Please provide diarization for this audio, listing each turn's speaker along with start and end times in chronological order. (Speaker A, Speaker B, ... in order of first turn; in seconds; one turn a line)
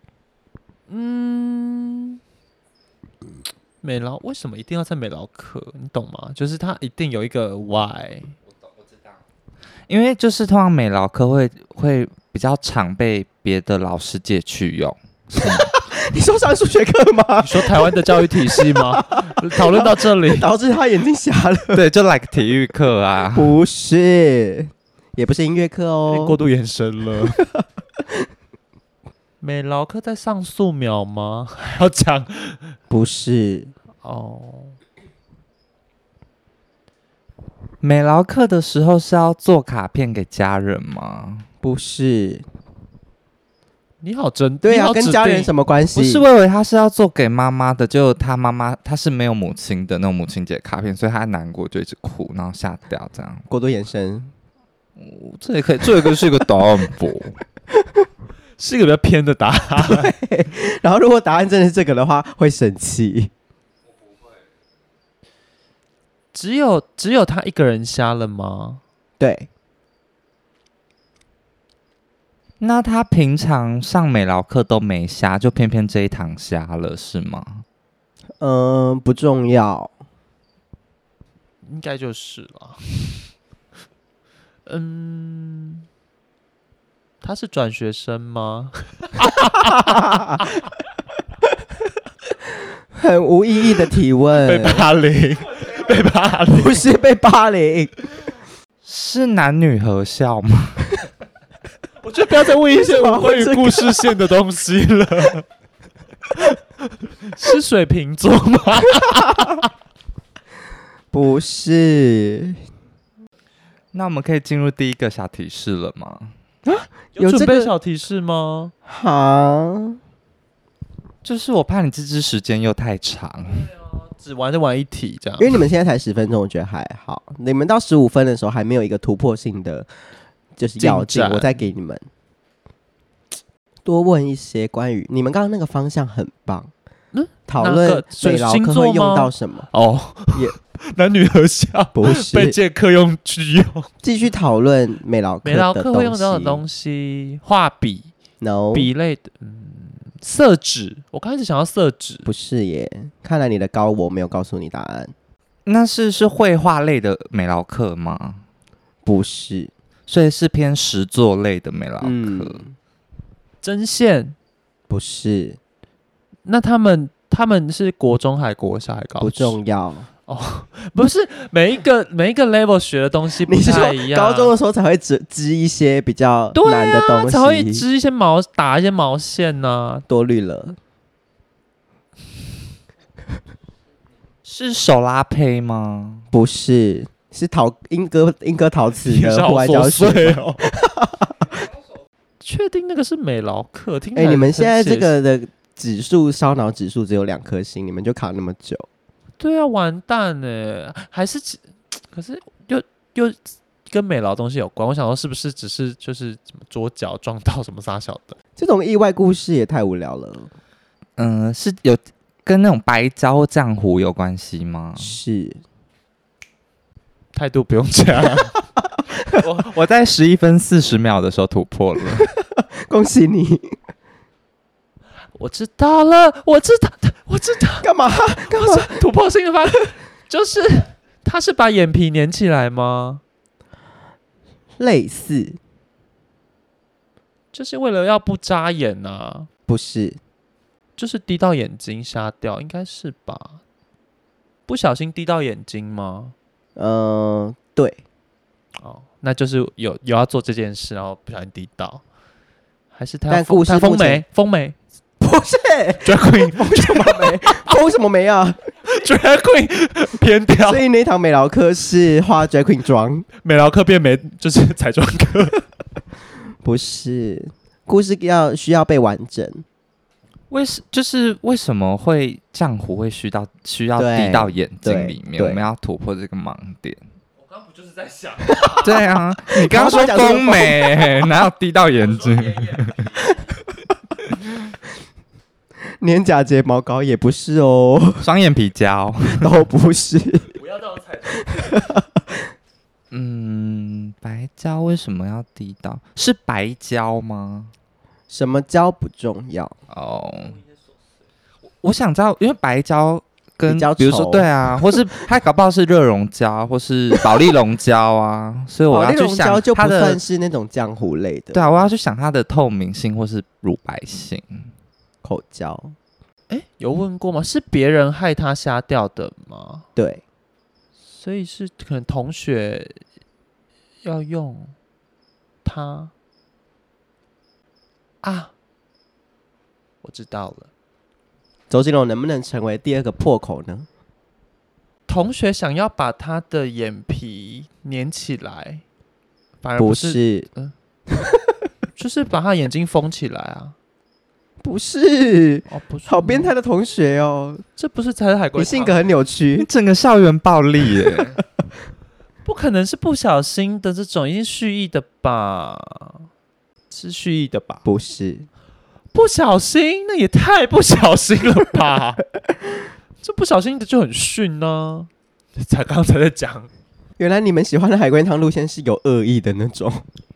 Speaker A: 0.9-2.2
Speaker A: 3.8-8.3
Speaker B: 9.9-15.7
Speaker C: 15.4-21.8
Speaker A: 17.4-20.5
Speaker B: 21.7-23.6
Speaker C: 23.4-26.4
Speaker A: 26.1-27.4
Speaker A: 29.4-32.7
Speaker C: 32.9-33.7
Speaker A: 34.0-34.8
Speaker B: 37.8-41.5
Speaker C: 41.6-42.5
Speaker A: 44.0-45.5
Speaker C: 44.6-46.2
Speaker B: 45.9-53.4
Speaker C: 53.5-54.3
Speaker B: 55.0-57.4
Speaker A: 58.6-60.1
Speaker C: 59.8-63.3
Speaker A: 66.3-68.8
Speaker C: 69.2-69.5
Speaker B: 72.6-77.6
Speaker C: 78.4-79.9
Speaker A: 81.6-83.3
Speaker A: 84.7-85.8
Speaker A: 87.2-90.5
Speaker C: 89.9-90.2
Speaker C: 93.0-94.9
Speaker A: 94.4-96.8
Speaker C: 96.5-98.0
Speaker B: 98.8-100.9
Speaker A: 102.0-105.5
Speaker C: 102.7-104.1
Speaker A: 107.1-109.7
Speaker C: 111.1-112.6
Speaker B: 113.9-116.3
Speaker C: 116.7-117.7
Speaker A: 117.2-118.7
Speaker C: 118.9-120.0
Speaker B: 121.2-123.7
Speaker A: 123.5-125.6
Speaker C: 125.4-129.9
Speaker C: 130.6-132.1
Speaker A: 130.8-131.7
Speaker C: 133.8-136.7
Speaker A: 137.1-143.9
Speaker C: 137.5-139.7
Speaker C: 141.9-142.6
Speaker C: 144.0-146.6
Speaker A: 145.4-148.1
Speaker C: 148.4-148.9
Speaker A: 148.7-152.3
Speaker C: 152.2-155.1
Speaker B: 155.7-158.4
Speaker C: 159.1-159.7
Speaker B: 160.1-162.6
Speaker C: 162.0-162.8
Speaker A: 163.6-164.3
Speaker C: 164.9-165.6
Speaker A: 166.5-169.6
Speaker C: 169.2-170.1
Speaker A: 170.3-174.5
Speaker C: 173.4-177.9
Speaker A: 176.6-180.0
Speaker C: 180.1-180.8
Speaker B: 184.4-186.2
Speaker C: 186.3-191.4
Speaker A: 189.0-190.6
Speaker A: 192.4-195.1
Speaker C: 194.2-198.9
Speaker A: 199.4-208.4
Speaker C: 208.6-210.5
Speaker B: 211.2-215.2
Speaker C: 215.0-215.6
Speaker A: 217.3-218.5
Speaker B: 219.4-222.3
Speaker C: 222.6-223.8
Speaker A: 225.3-233.2
Speaker C: 227.8-228.9
Speaker C: 234.8-235.6
Speaker A: 237.5-239.5
Speaker C: 239.7-240.2
Speaker A: 241.0-243.6
Speaker A: 244.7-246.3
Speaker C: 246.8-248.0
Speaker A: 248.8-252.0
Speaker A: 252.9-254.8
Speaker C: 253.3-254.2
Speaker C: 255.2-258.6
Speaker A: 256.0-257.7
Speaker A: 258.8-260.9
Speaker C: 260.6-263.3
Speaker A: 263.4-265.6
Speaker C: 266.6-269.6
Speaker B: 270.5-277.0
Speaker C: 274.0-275.7
Speaker A: 277.4-279.1
Speaker B: 278.8-283.0
Speaker C: 279.6-281.3
Speaker A: 282.0-283.3
Speaker C: 286.0-288.2
Speaker B: 288.2-289.5
Speaker C: 289.3-290.6
Speaker A: 290.6-291.9
Speaker C: 291.4-292.2
Speaker B: 293.1-297.7
Speaker C: 298.3-299.8
Speaker B: 299.9-300.6
Speaker B: 301.8-310.2
Speaker C: 303.7-304.9
Speaker C: 308.9-311.8
Speaker B: 311.5-314.7
Speaker C: 315.2-315.9
Speaker A: 316.5-319.8
Speaker C: 320.0-320.2
Speaker A: 321.1-323.0
Speaker A: 324.0-324.7
Speaker A: 325.6-326.1
Speaker A: 328.2-328.5
Speaker A: 330.0-330.7
Speaker C: 331.7-333.9
Speaker A: 335.1-338.8
Speaker A: 339.6-340.7
Speaker C: 339.8-340.5
Speaker A: 342.0-343.8
Speaker C: 344.6-347.6
Speaker A: 345.7-346.5
Speaker A: 347.8-349.0
Speaker C: 348.6-349.7
Speaker B: 349.6-351.4
Speaker A: 352.4-356.3
Speaker A: 356.9-357.9
Speaker C: 357.9-358.5
Speaker A: 359.1-362.2
Speaker A: 363.2-366.7
Speaker C: 367.2-370.0